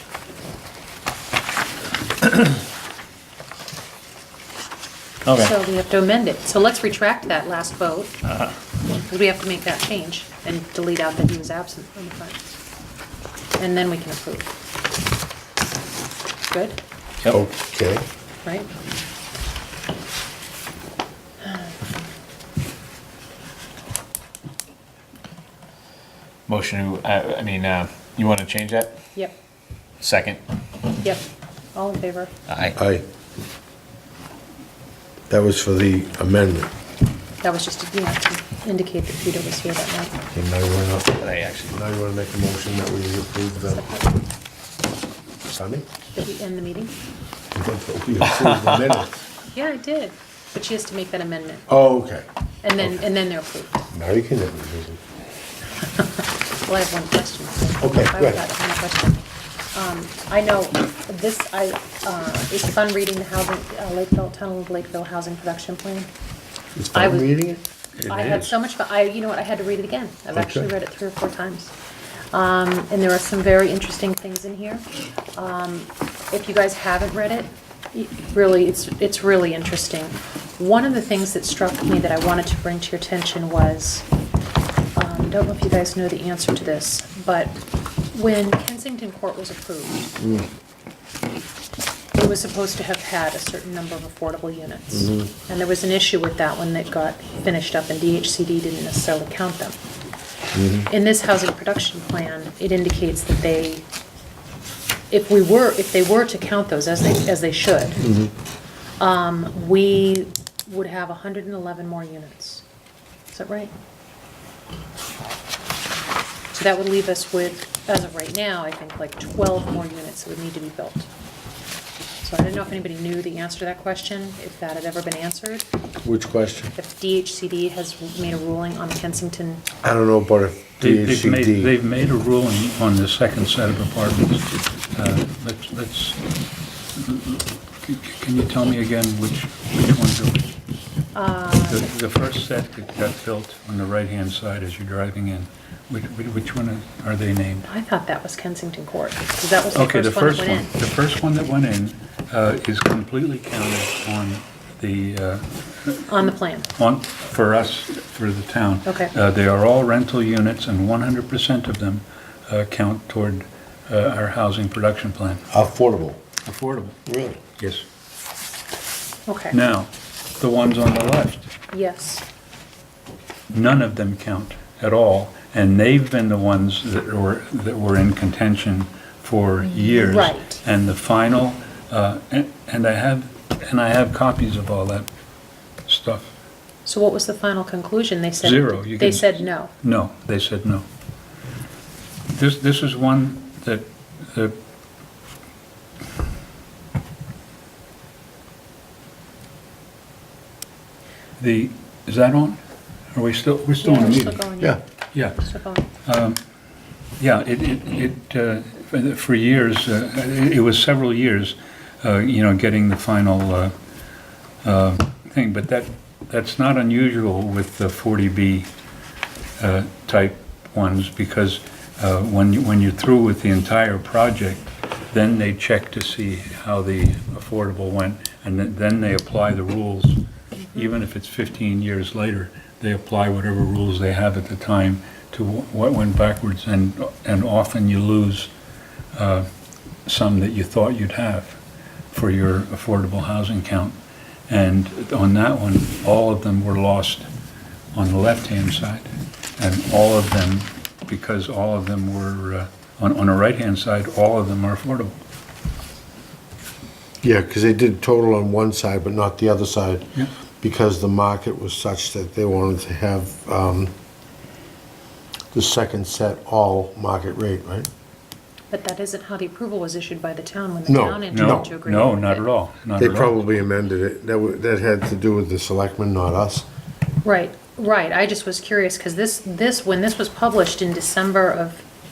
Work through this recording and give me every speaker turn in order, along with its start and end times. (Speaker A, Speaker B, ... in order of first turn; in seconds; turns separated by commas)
Speaker A: 5.3-5.5, Speaker B: 5.4-8.2, Speaker A: 8.2-8.5, Speaker B: 9.1-12.6, Speaker B: 13.6-14.5, Speaker B: 16.5-16.8, Speaker C: 17.3-18.1, Speaker B: 18.4-18.7, Speaker A: 26.5-29.0, Speaker A: 30.0-30.4, Speaker B: 31.7-32.3, Speaker A: 32.5-32.8, Speaker C: 32.8-33.0, Speaker C: 35.3-36.7, Speaker B: 37.4-40.2, Speaker C: 40.3-43.9, Speaker A: 41.2-41.7, Speaker B: 43.7-44.2, Speaker C: 45.5-45.9, Speaker B: 46.1-46.9, Speaker C: 47.5-49.2, Speaker B: 49.5-51.7, Speaker C: 51.7-52.2, Speaker B: 52.6-53.9, Speaker C: 53.9-55.0, Speaker B: 55.8-66.1, Speaker C: 57.8-58.4, Speaker C: 66.8-67.6, Speaker B: 66.9-67.4, Speaker D: 68.0-68.5, Speaker B: 68.1-71.7, Speaker C: 70.3-70.7, Speaker B: 72.3-84.1, Speaker B: 85.0-87.6, Speaker B: 88.1-90.2, Speaker C: 90.2-90.5, Speaker B: 92.1-99.8, Speaker C: 94.9-95.3, Speaker C: 100.5-100.9, Speaker B: 100.9-103.8, Speaker B: 105.1-108.0, Speaker C: 108.0-108.3, Speaker B: 109.0-112.6, Speaker B: 113.3-113.7, Speaker B: 116.5-121.1, Speaker B: 122.2-125.7, Speaker C: 126.0-126.7, Speaker B: 126.8-129.7, Speaker C: 129.8-131.7, Speaker D: 130.8-136.2, Speaker D: 136.9-140.5, Speaker B: 141.1-141.9, Speaker D: 141.7-147.7, Speaker B: 147.7-150.7, Speaker D: 149.7-156.1, Speaker B: 156.1-156.7, Speaker D: 156.8-165.4, Speaker B: 158.9-159.1, Speaker C: 165.5-166.2, Speaker D: 166.4-167.0, Speaker C: 167.1-167.4, Speaker D: 167.6-167.8, Speaker B: 169.3-169.6, Speaker D: 169.5-171.5, Speaker B: 171.7-172.3, Speaker D: 173.5-185.1, Speaker B: 180.0-180.6, Speaker D: 185.9-186.3, Speaker B: 186.8-189.7, Speaker D: 188.4-190.9, Speaker D: 192.3-194.6, Speaker D: 201.4-202.6, Speaker D: 203.1-204.4, Speaker B: 203.8-205.9, Speaker D: 206.1-206.4, Speaker D: 207.2-213.7, Speaker D: 214.6-218.7, Speaker D: 219.6-230.2, Speaker B: 230.6-230.9, Speaker D: 230.7-238.5, Speaker D: 239.1-239.5, Speaker D: 240.1-241.6, Speaker D: 242.1-244.0, Speaker D: 244.5-247.3, Speaker D: 247.9-255.2, Speaker C: 257.2-263.9, Speaker C: 265.5-267.9, Speaker B: 268.7-272.4, Speaker C: 270.9-271.7, Speaker D: 271.3-273.4, Speaker C: 273.0-276.7, Speaker B: 277.2-281.9